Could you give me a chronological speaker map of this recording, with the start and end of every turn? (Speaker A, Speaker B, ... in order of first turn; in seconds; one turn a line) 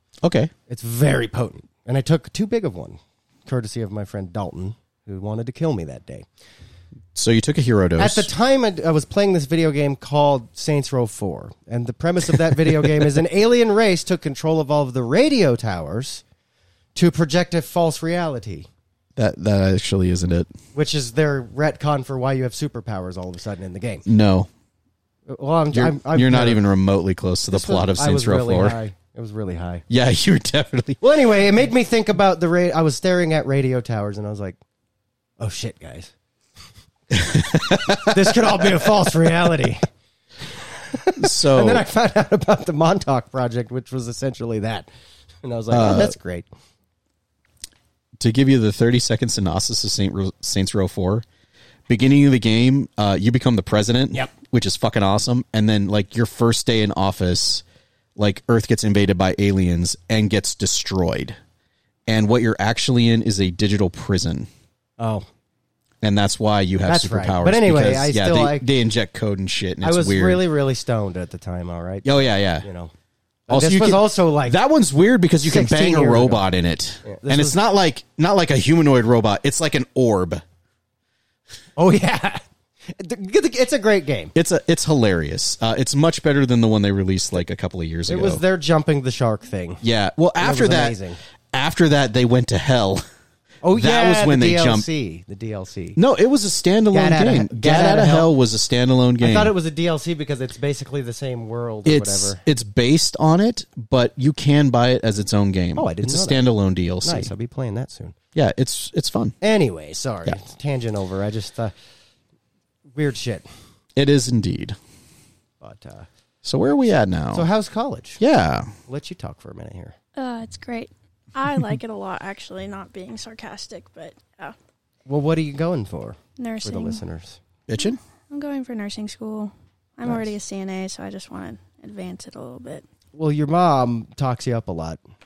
Speaker A: 0.2-0.5
Speaker B: 0.7-6.3
Speaker A: 7.2-8.3
Speaker B: 8.0-16.2
Speaker B: 16.9-18.7
Speaker A: 19.2-20.5
Speaker B: 20.7-24.1
Speaker A: 24.1-24.5
Speaker B: 25.3-26.6
Speaker A: 25.7-28.8
Speaker B: 27.5-29.9
Speaker A: 29.9-31.0
Speaker B: 31.0-34.6
Speaker B: 35.4-36.1
Speaker A: 37.1-38.1
Speaker B: 37.2-39.9
Speaker B: 40.6-44.9
Speaker A: 41.2-41.9
Speaker B: 45.4-46.5
Speaker A: 45.7-46.1
Speaker A: 48.2-51.2
Speaker A: 51.9-57.6
Speaker A: 58.2-61.4
Speaker A: 62.1-64.5
Speaker B: 65.0-65.3
Speaker A: 66.0-70.4
Speaker B: 66.8-68.7
Speaker B: 69.8-72.9
Speaker A: 72.0-72.7
Speaker A: 73.5-80.4
Speaker B: 73.5-74.6
Speaker B: 75.4-76.4
Speaker B: 77.0-77.6
Speaker B: 81.8-84.3
Speaker A: 84.3-88.4
Speaker B: 88.1-89.8
Speaker A: 89.8-91.0
Speaker B: 90.4-91.2
Speaker A: 91.5-93.0
Speaker B: 93.6-96.0
Speaker A: 93.8-94.9
Speaker A: 96.0-99.5
Speaker B: 96.9-98.3
Speaker B: 99.2-102.4
Speaker A: 101.9-107.3
Speaker B: 105.8-106.5
Speaker B: 107.0-108.2
Speaker A: 108.3-109.3
Speaker B: 109.4-111.7
Speaker B: 112.9-113.5
Speaker A: 114.0-114.8
Speaker B: 115.6-116.1
Speaker A: 116.4-117.5
Speaker B: 117.3-118.2
Speaker A: 118.2-118.7
Speaker B: 118.9-120.0
Speaker C: 120.2-124.5
Speaker B: 125.1-127.4
Speaker C: 126.4-127.0
Speaker A: 127.7-128.0
Speaker C: 127.8-132.8
Speaker B: 133.1-135.0